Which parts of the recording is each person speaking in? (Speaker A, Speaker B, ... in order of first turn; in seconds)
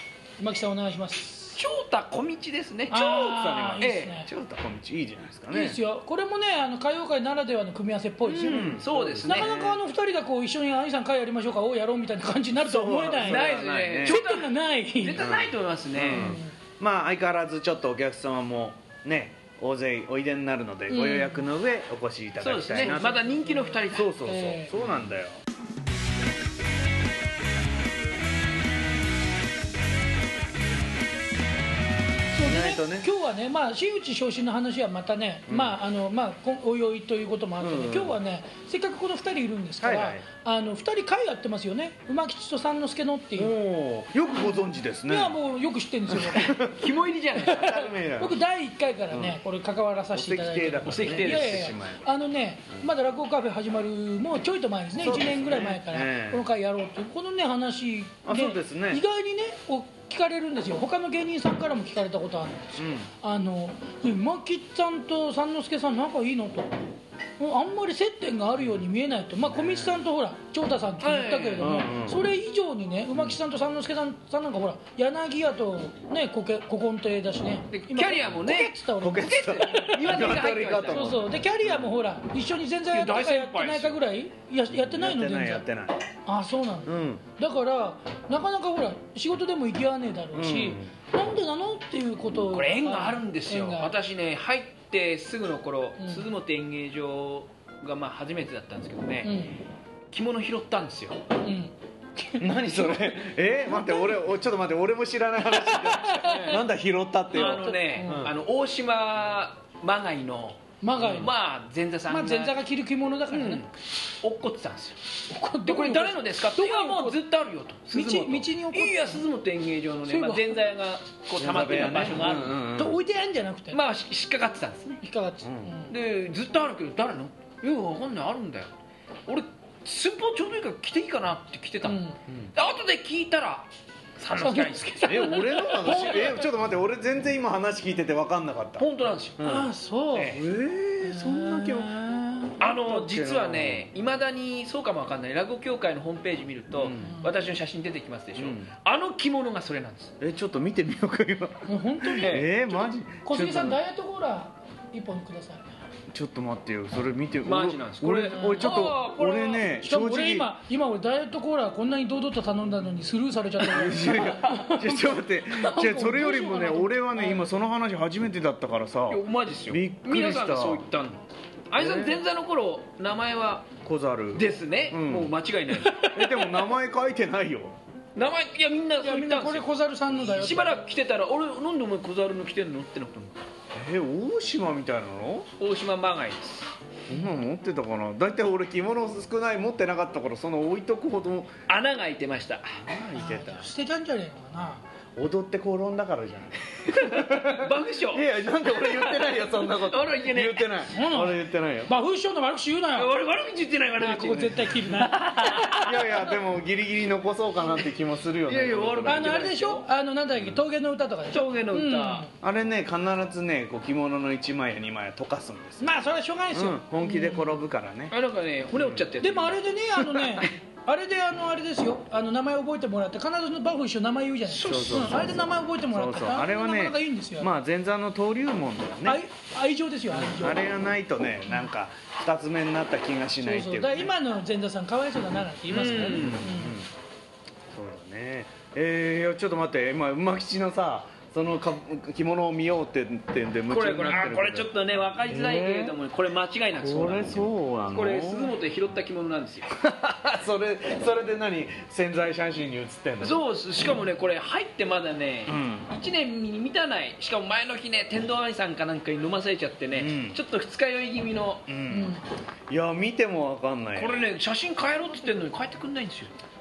Speaker A: 0.4-1.6, 2.9-4.3, 5.5-15.3, 16.0-16.5, 20.9-21.5, 22.8-24.7, 32.3-43.6, 45.1-46.7, 47.4-66.8, 67.4-85.7, 86.2-94.0, 96.0-96.3, 99.2-99.6, 101.4-104.2, 105.5-106.6, 107.3-108.3, 110.8-111.3, 112.1-113.7, 115.3-117.2, 117.9-119.3, 120.0-120.7, 122.8-123.8, 125.0-125.9, 131.8-132.2, 134.3-136.5, 139.4-140.4, 141.0-142.6, 147.0-147.4, 151.7-155.7, 158.3-158.9, 159.8-167.5, 179.0-180.8, 193.1-194.8, 200.9-203.1, 204.0-206.2, 209.1-212.3, 215.8-217.6, 219.2-227.5, 229.1-230.7, 233.4-236.8, 261.9-262.2
Speaker B: 1.6-4.2, 8.4-9.5, 13.2-16.4, 22.4-24.2, 46.6-47.7, 50.9-51.7, 71.0-71.8, 77.7-78.8, 79.5-81.2, 82.9-84.0, 92.4-99.5, 100.1-101.2, 106.2-106.6, 107.3-112.6, 113.3-115.0, 115.7-122.6, 123.7-125.0, 125.9-128.7, 129.3-132.0, 132.6-136.3, 138.8-140.4, 142.6-150.1, 152.2-152.5, 157.4-159.7, 169.1-173.8, 174.3-176.6, 178.2-183.4, 185.6-186.7, 191.7-192.8, 196.8-200.9, 202.9-206.0, 208.5-209.9, 211.3-212.3, 218.1-220.4, 224.5-225.2, 235.7-236.5, 243.7-249.7, 253.2-261.7, 263.9-266.3
Speaker C: 3.4-5.8, 8.3-9.8, 12.6-14.2, 15.2-23.2, 23.9-25.4, 32.4-33.1, 35.5-35.8, 37.6-38.2, 39.8-40.2, 43.4-45.4, 46.1-46.9, 47.4-48.4, 49.1-49.4, 50.1-52.1, 55.0-56.5, 58.2-59.0, 62.8-63.1, 69.5-70.0, 71.6-72.2, 78.9-81.9, 84.7-86.0, 86.9-87.2, 90.3-91.0, 102.4-108.3, 121.4-123.0, 125.4-125.7, 135.1-138.9, 139.4-142.0, 142.6-143.9, 146.8-147.2, 148.4-148.7, 150.2-153.8, 156.1-160.5, 163.6-170.9, 171.8-172.2, 173.8-177.8, 183.7-185.5, 187.1-191.6, 192.8-193.7, 195.2-201.9, 204.3-204.7, 205.7-209.5, 212.4-215.9, 216.5-218.1, 218.7-219.1, 224.6-229.2, 230.1-234.1, 235.7-236.9, 237.7-244.7, 245.3-246.0, 246.8-248.6, 249.7-253.4, 255.5-255.9, 259.9-260.4, 261.7-264.3